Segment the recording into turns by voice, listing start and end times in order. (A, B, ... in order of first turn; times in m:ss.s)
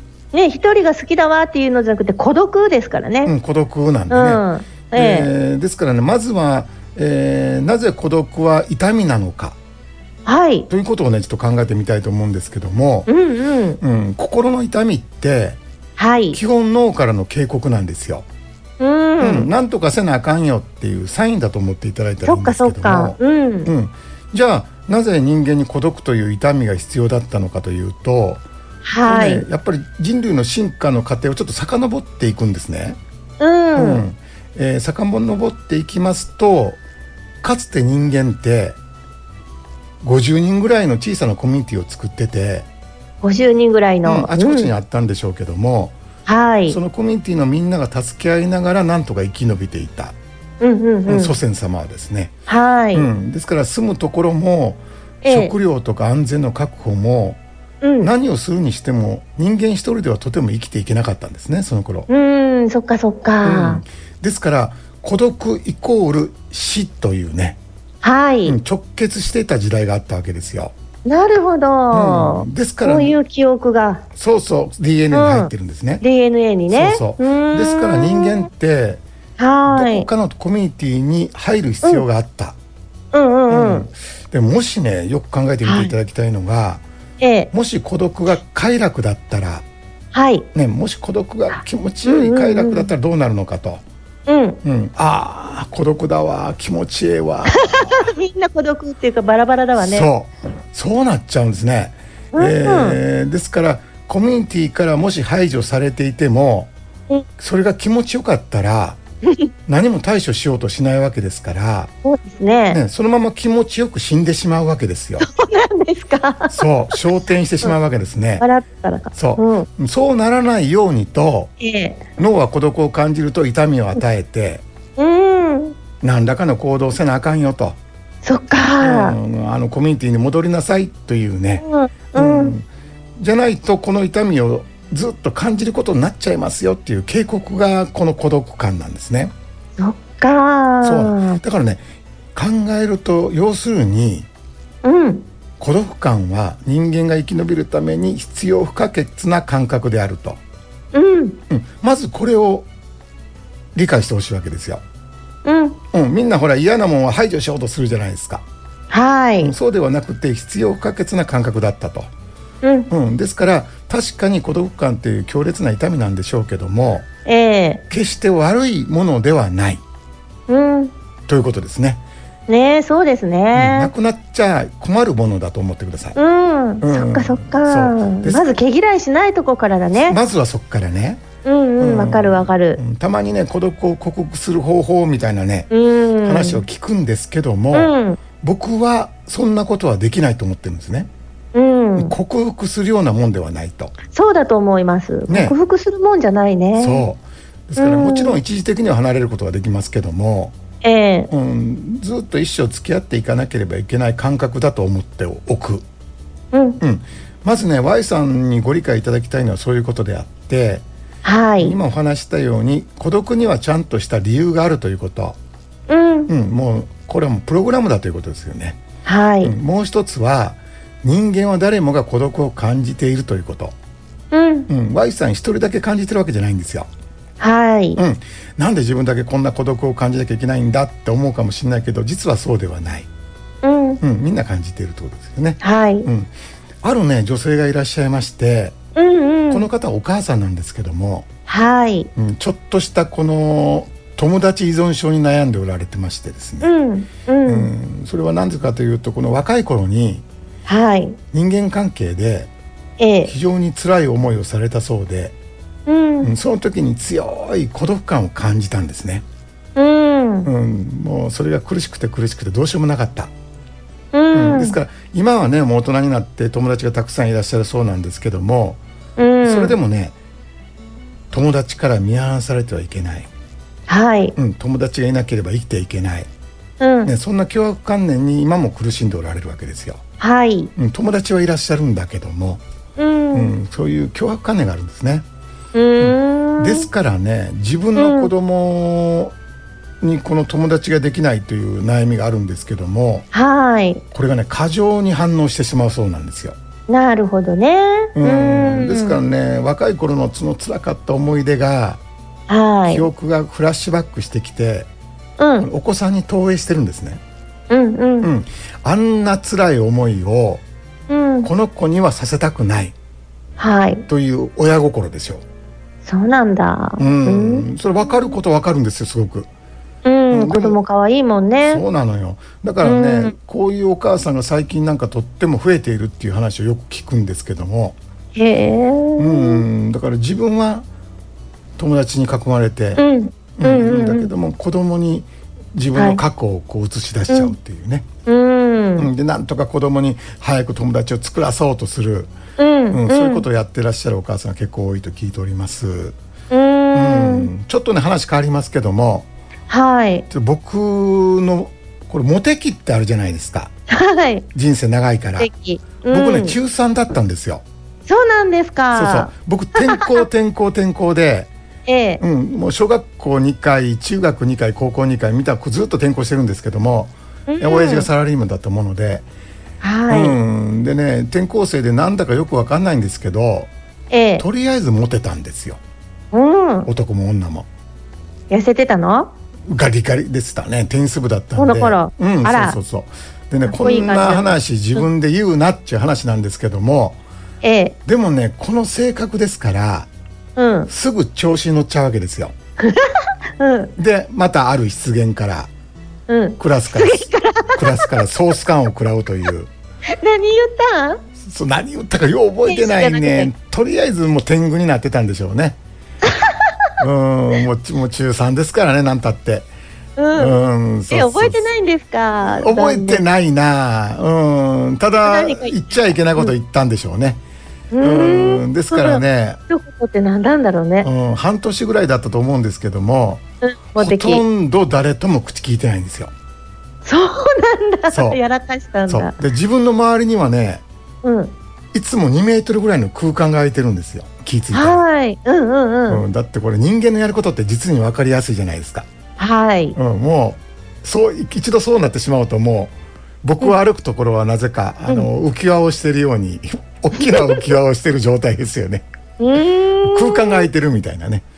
0:00.3-0:03.3 A
0:03.2-0:09.6 B
0:04.1-0:05.3 A
0:10.2-0:10.7 A
0:10.7-0:13.1 B
0:13.1-0:13.8 A
0:13.8-0:15.6 B
0:16.0-0:16.4 A
0:16.3-0:18.2 B
0:18.8-0:19.5 A
0:19.2-0:28.4 B
0:22.2-0:23.7 A
0:28.8-0:29.4 A
0:29.0-0:33.0 B
0:33.4-0:34.0 A
0:33.8-0:36.8 B
0:37.4-0:38.8 B
0:40.0-0:42.7 B
0:43.2-0:44.7 A
0:44.0-0:46.0 B
0:46.3-0:46.8 A
0:46.7-0:50.2 B
0:50.6-0:51.4 A
0:51.1-0:52.3 B
0:52.5-0:53.1 A
0:52.9-0:57.4 B
0:55.2-0:55.5 A
0:57.8-0:58.1 A
0:58.0-1:02.1 B
1:02.1-1:03.8 A
1:03.4-1:07.6 B
1:08.0-1:08.6 A
1:08.4-1:10.7 B
1:11.0-1:14.0 A
1:11.9-1:13.2 B
1:14.1-1:16.0 B
1:15.1-1:18.4 A
1:16.7-1:19.0 B
1:19.4-1:20.1 A
1:19.7-1:22.6 B
1:23.1-1:23.9 A
1:23.5-1:26.8 B
1:25.6-1:25.9 A
1:27.2-1:27.5 A
1:27.5-1:29.6 B
1:30.1-1:30.5 A
1:30.5-1:33.8 B
1:32.0-1:32.9 A
1:34.3-1:34.6 A
1:34.6-1:38.1 B
1:37.5-1:40.1 A
1:39.8-1:46.7 B
1:42.3-1:43.0 A
1:47.4-1:49.0 B
1:49.7-1:51.9 B
1:52.0-1:52.8 A
1:52.7-1:55.3 B
1:55.2-1:56.6 A
1:56.5-1:58.4 B
1:58.4-1:59.7 A
1:59.1-2:01.5 B
2:01.6-2:02.0 A
2:02.2-2:04.6 B
2:05.0-2:05.8 A
2:06.0-2:07.8 B
2:08.2-2:09.2 A
2:08.8-2:12.7 B
2:11.6-2:12.5 A
2:13.2-2:19.3 B
2:19.8-2:21.4 A
2:20.8-2:21.8 B
2:22.3-2:24.3 B
2:24.8-2:25.2 A
2:25.6-2:30.4 B
2:30.9-2:31.4 A
2:31.5-2:32.7 B
2:33.7-2:34.8 B
2:35.4-2:35.8 A
2:35.9-2:38.4 B
2:38.9-2:39.5 A
2:39.4-2:42.1 B
2:42.6-2:42.9 A
2:42.9-2:47.1 B
2:47.2-2:47.8 A
2:47.9-2:49.8 B
2:50.5-2:50.9 A
2:51.3-2:52.0 B
2:52.5-2:53.9 A
2:53.5-2:56.2 B
2:56.1-3:00.2 A
2:56.8-2:58.4 B
2:59.9-3:01.2 B
3:01.4-3:02.8 A
3:01.8-3:05.7 B
3:05.7-3:06.6 A
3:06.2-3:11.1 B
3:07.7-3:08.2 A
3:11.5-3:12.1 A
3:12.0-3:13.9 B
3:14.1-3:17.0 A
3:15.3-3:15.6 B
3:16.8-3:20.5 B
3:17.8-3:18.4 A
3:20.8-3:21.3 A
3:21.3-3:25.8 B
3:26.5-3:26.8 A
3:26.8-3:30.8 B
3:31.2-3:31.8 A
3:31.6-3:35.4 B
3:35.9-3:36.3 A
3:36.3-3:38.8 B
3:39.0-3:39.5 A
3:39.4-3:43.7 B
3:44.3-3:44.7 A
3:44.7-3:46.9 B
3:47.4-3:48.0 A
3:48.0-3:53.1 B
3:53.6-3:54.0 A
3:54.0-3:56.3 B
3:55.6-3:56.1 A
3:56.8-3:58.8 B
3:59.0-3:59.7 A
3:59.5-4:01.2 B
4:01.5-4:02.1 A
4:02.1-4:06.7 B
4:06.6-4:07.7 A
4:07.4-4:10.2 B
4:10.7-4:11.2 A
4:11.3-4:12.5 B
4:13.0-4:13.3 A
4:13.2-4:15.3 B
4:15.9-4:16.3 A
4:16.2-4:19.2 B
4:19.8-4:20.5 A
4:20.4-4:23.3 B
4:24.1-4:24.8 A
4:24.3-4:28.8 B
4:29.2-4:29.8 A
4:29.4-4:30.1 B
4:31.3-4:33.3 B
4:33.9-4:34.3 A
4:34.4-4:36.3 B
4:36.8-4:37.1 A
4:37.0-4:40.0 B
4:40.2-4:40.7 A
4:40.8-4:42.6 B
4:43.0-4:43.5 A
4:43.3-4:45.2 B
4:45.7-4:46.9 A
4:46.0-4:49.3 B
4:48.0-4:48.3 A
4:50.0-4:53.2 B
4:53.3-4:54.0 A
4:54.1-4:56.6 B
4:56.9-4:59.2 A
4:58.2-5:02.0 B
5:02.5-5:03.1 A
5:02.8-5:04.9 B
5:05.4-5:05.7 A
5:05.6-5:07.2 B
5:07.7-5:08.3 A
5:08.2-5:10.6 B
5:11.1-5:11.5 A
5:11.4-5:12.9 B
5:13.6-5:14.0 A
5:14.1-5:15.4 B
5:16.0-5:17.6 A
5:17.0-5:19.5 B
5:20.0-5:21.8 A
5:20.3-5:20.8 B
5:21.6-5:28.0 B
5:22.8-5:23.3 A
5:28.3-5:29.6 A
5:29.2-5:30.9 B
5:31.8-5:33.0 B
5:33.0-5:34.3 A
5:33.6-5:38.1 B
5:35.9-5:36.2 A
5:38.3-5:39.1 A
5:39.0-5:42.3 B
5:42.6-5:43.4 A
5:42.9-5:46.2 B
5:46.5-5:47.5 A
5:46.9-5:49.3 B
5:49.7-5:50.2 A
5:50.3-5:53.7 B
5:53.9-5:54.4 A
5:54.5-5:55.5 B
5:55.4-5:56.6 A
5:56.1-5:57.6 B
5:58.1-6:00.2 A
5:58.9-6:01.5 B
6:01.8-6:02.2 A
6:02.2-6:09.2 B
6:07.5-6:08.1 A
6:09.8-6:10.4 A
6:10.1-6:13.7 B
6:14.1-6:14.4 A
6:14.4-6:15.8 B
6:16.3-6:16.9 A
6:16.8-6:17.7 B
6:18.5-6:19.3 A
6:19.7-6:27.2 B
6:21.6-6:22.8 A
6:23.6-6:25.0 A
6:27.6-6:28.0 A
6:28.0-6:30.1 B
6:30.6-6:30.9 A
6:30.9-6:32.5 B
6:32.8-6:33.9 A
6:34.0-6:35.7 B
6:36.3-6:38.2 A
6:36.6-6:39.7 B
6:40.1-6:41.2 A
6:41.4-6:45.8 B
6:42.7-6:43.5 A
6:46.2-6:46.7 A
6:47.0-6:49.7 B
6:50.2-6:50.6 A
6:50.3-6:51.7 B
6:51.1-6:53.2 A
6:52.5-6:57.4 B
6:55.2-6:56.5 A
6:57.9-7:01.1 A
6:58.0-6:59.6 B
7:01.0-7:03.4 B
7:03.6-7:04.4 A
7:04.0-7:06.3 B
7:07.0-7:09.4 A
7:08.1-7:08.4 B
7:09.1-7:10.8 B
7:11.2-7:11.5 A
7:11.9-7:15.0 B
7:14.7-7:16.2 A
7:16.1-7:19.1 B
7:19.4-7:20.0 A
7:20.0-7:29.0 B
7:27.2-7:27.6 A
7:29.4-7:30.7 A
7:30.0-7:31.4 B